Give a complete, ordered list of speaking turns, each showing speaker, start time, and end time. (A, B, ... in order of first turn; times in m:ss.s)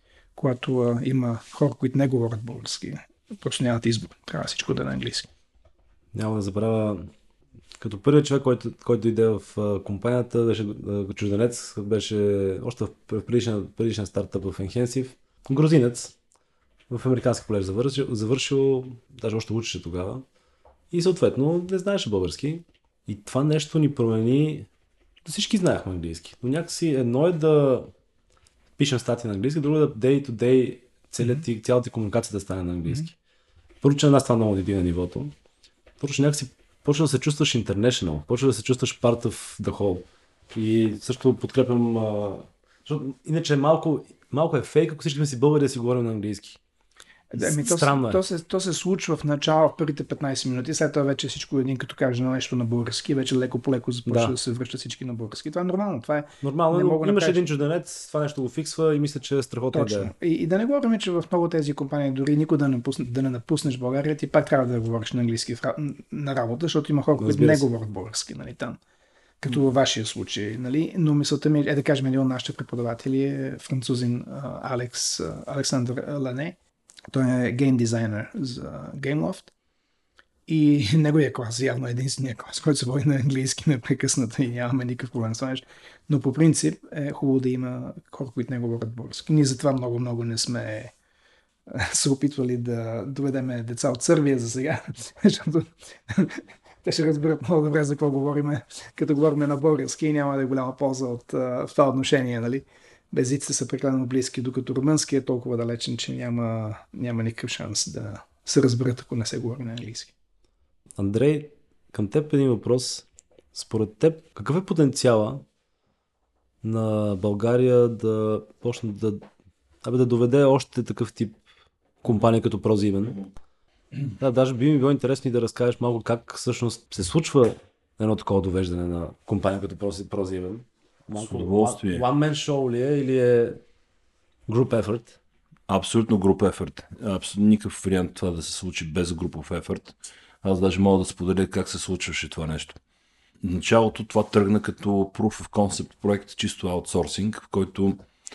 0:00.4-0:05.3 A
0:06.1-0:07.1 B
0:07.8-0:16.1 B
0:16.9-0:20.2 B
0:20.9-0:24.7 B
0:25.2-0:27.9 B
0:28.8-0:33.1 B
0:33.8-0:35.3 B
0:36.0-0:46.6 B
0:47.3-0:57.5 A
0:47.4-0:48.2 B
0:54.0-0:54.4 B
0:56.4-1:00.1 B
0:59.7-1:08.8 A
1:07.2-1:07.6 B
1:09.4-1:16.6 A
1:17.1-1:19.5 A
1:20.5-1:30.9 A
1:31.7-1:50.1 A
1:51.0-1:55.4 B
1:56.6-1:59.3 B
1:59.8-2:01.4 B
2:02.0-2:03.2 B
2:04.2-2:13.6 B
2:11.1-2:12.0 C
2:14.5-2:15.2 B
2:15.7-2:22.8 C
2:23.4-2:28.0 C